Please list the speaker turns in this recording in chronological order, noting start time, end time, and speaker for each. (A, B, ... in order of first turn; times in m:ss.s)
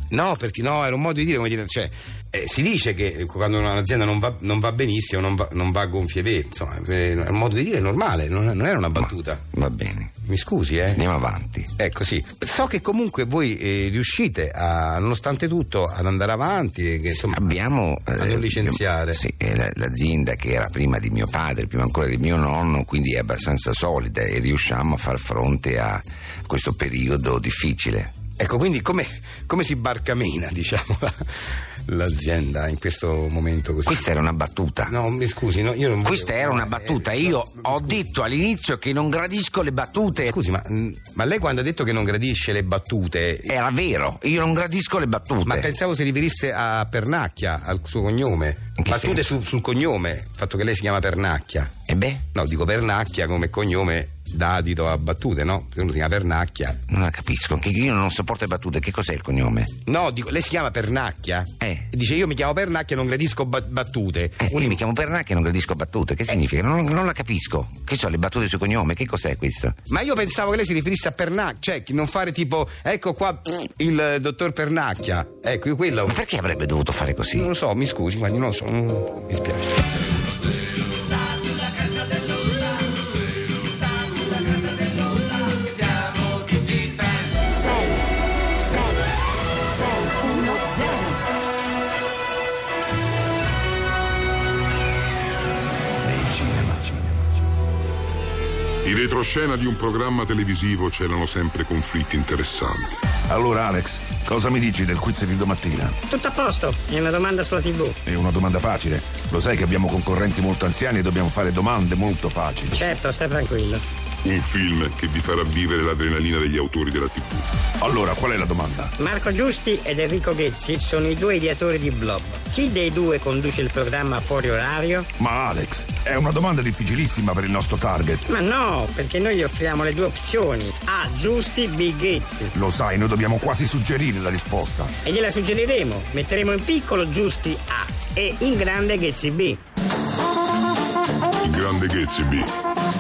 0:00.1-0:09.4 A
0:09.0-0:10.1 B
0:10.2-0:11.0 A
0:10.9-0:11.7 B
0:11.8-0:17.6 A
0:17.1-0:28.1 B
0:18.2-0:19.2 A
0:28.4-0:31.2 A
0:31.9-0:34.1 A
0:33.8-0:35.0 B
0:34.9-0:38.0 A
0:36.0-0:40.4 B
0:40.2-0:43.6 A
0:43.5-0:45.7 B
0:45.4-0:51.8 A
0:48.8-0:49.2 B
0:51.9-0:52.2 B
0:52.3-0:56.8 A
0:56.9-0:59.7 B
0:59.9-1:04.8 A
1:01.6-1:01.9 B
1:04.4-1:09.8 B
1:09.9-1:16.2 A
1:16.1-1:17.5 B
1:17.3-1:19.9 A
1:36.0-1:37.1 C
1:38.8-1:42.9 D
1:43.3-1:46.0 C
1:46.1-1:48.0 E
1:48.1-1:52.9 C
1:52.8-1:53.8 E
1:54.2-1:57.5 D
1:57.8-1:58.9 C
1:59.0-2:05.1 E
2:05.2-2:08.2 C
2:08.3-2:12.5 E
2:12.6-2:14.9 C
2:15.0-2:19.6 E
2:21.4-2:22.5 D